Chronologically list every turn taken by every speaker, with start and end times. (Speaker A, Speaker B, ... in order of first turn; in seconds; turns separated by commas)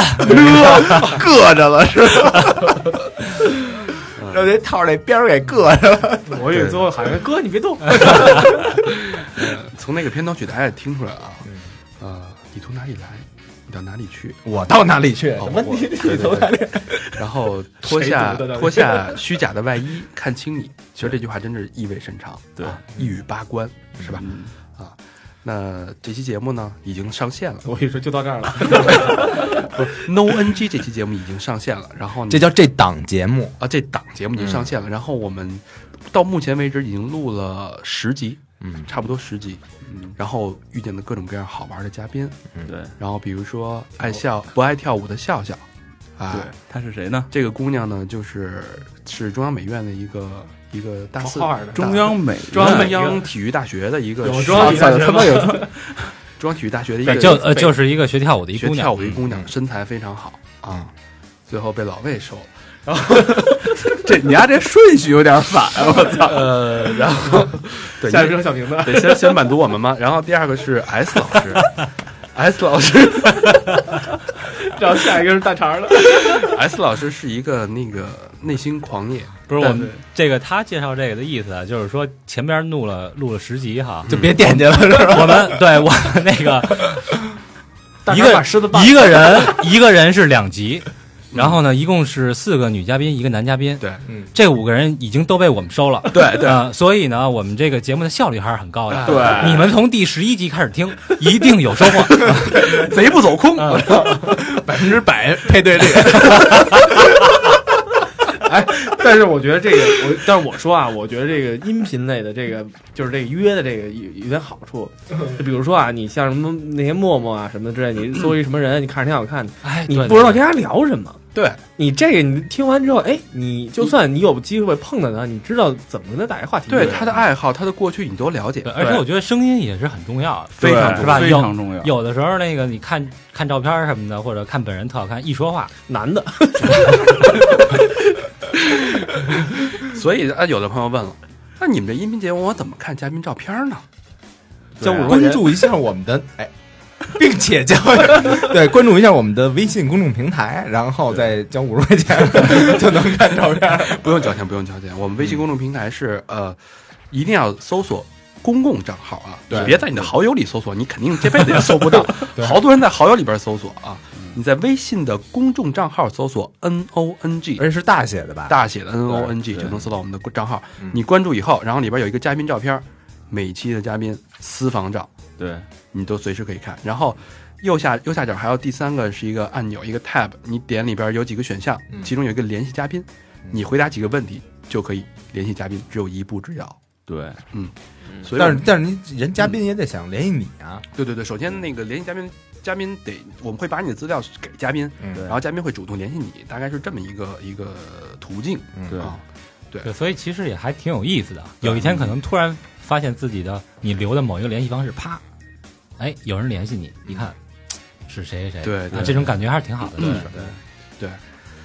Speaker A: 0.1-6.5, Speaker B: 0.2-1.2, Speaker B: 4.2-4.5, Speaker C: 6.3-8.6, Speaker B: 6.5-6.8, Speaker A: 8.4-8.7, Speaker B: 8.5-11.4, Speaker A: 11.4-11.7, Speaker B: 12.0-14.4, Speaker A: 14.4-17.2, Speaker B: 15.4-27.7, Speaker C: 17.8-19.2, Speaker D: 24.2-24.5, Speaker C: 27.6-29.9, Speaker B: 29.4-32.5, Speaker A: 32.3-33.6, Speaker B: 33.6-39.6, Speaker A: 34.3-34.7, Speaker A: 38.6-38.9, Speaker D: 39.9-40.1, Speaker B: 40.1-42.4, Speaker D: 42.6-42.9, Speaker B: 43.0-45.6, Speaker B: 46.2-46.5, Speaker D: 46.3-47.3, Speaker B: 47.3-55.5, Speaker C: 51.2-51.9, Speaker D: 51.7-53.0, Speaker C: 52.5-53.3, Speaker C: 54.2-55.7, Speaker D: 54.5-56.1, Speaker B: 56.4-57.5, Speaker C: 57.0-57.7, Speaker E: 57.0-58.9, Speaker B: 58.5-60.9, Speaker B: 61.5-62.5, Speaker C: 63.0-63.5, Speaker D: 63.8-66.7, Speaker B: 66.1-74.0, Speaker C: 68.0-69.5, Speaker C: 74.6-76.6, Speaker B: 76.1-79.9, Speaker E: 79.5-87.1, Speaker D: 79.6-80.0, Speaker A: 84.1-85.7, Speaker B: 84.1-84.4, Speaker C: 88.0-89.7, Speaker E: 88.1-102.5, Speaker B: 91.3-91.6, Speaker A: 94.0-94.3, Speaker B: 96.1-96.6, Speaker B: 98.9-99.7, Speaker D: 99.0-99.7, Speaker A: 102.4-103.0, Speaker B: 102.5-104.5, Speaker A: 103.7-107.6, Speaker C: 108.2-121.2, Speaker E: 119.6-120.4, Speaker B: 121.3-121.6, Speaker C: 121.8-127.2, Speaker B: 126.7-128.7, Speaker D: 126.7-127.0, Speaker E: 128.6-135.7, Speaker B: 130.6-131.4, Speaker D: 130.6-131.9, Speaker C: 135.8-138.1, Speaker B: 139.1-143.8, Speaker D: 144.8-145.2, Speaker A: 144.8-146.5, Speaker C: 145.0-145.4, Speaker A: 147.1-154.3, Speaker B: 153.8-156.6, Speaker B: 157.1-167.6, Speaker A: 159.5-160.0, Speaker D: 159.5-159.8, Speaker A: 161.6-162.6, Speaker A: 167.6-169.3, Speaker B: 168.5-175.1, Speaker D: 169.5-169.8, Speaker D: 175.4-175.7, Speaker B: 175.9-186.8, Speaker D: 187.1-187.4, Speaker B: 187.5-188.7, Speaker A: 188.3-190.8, Speaker B: 190.9-199.9, Speaker A: 195.0-195.3, Speaker A: 198.8-199.1, Speaker E: 199.8-205.2, Speaker B: 201.6-202.2, Speaker E: 206.0-207.4, Speaker E: 208.1-210.3, Speaker B: 208.6-209.3, Speaker B: 210.0-211.2, Speaker A: 210.0-210.3, Speaker D: 210.0-210.5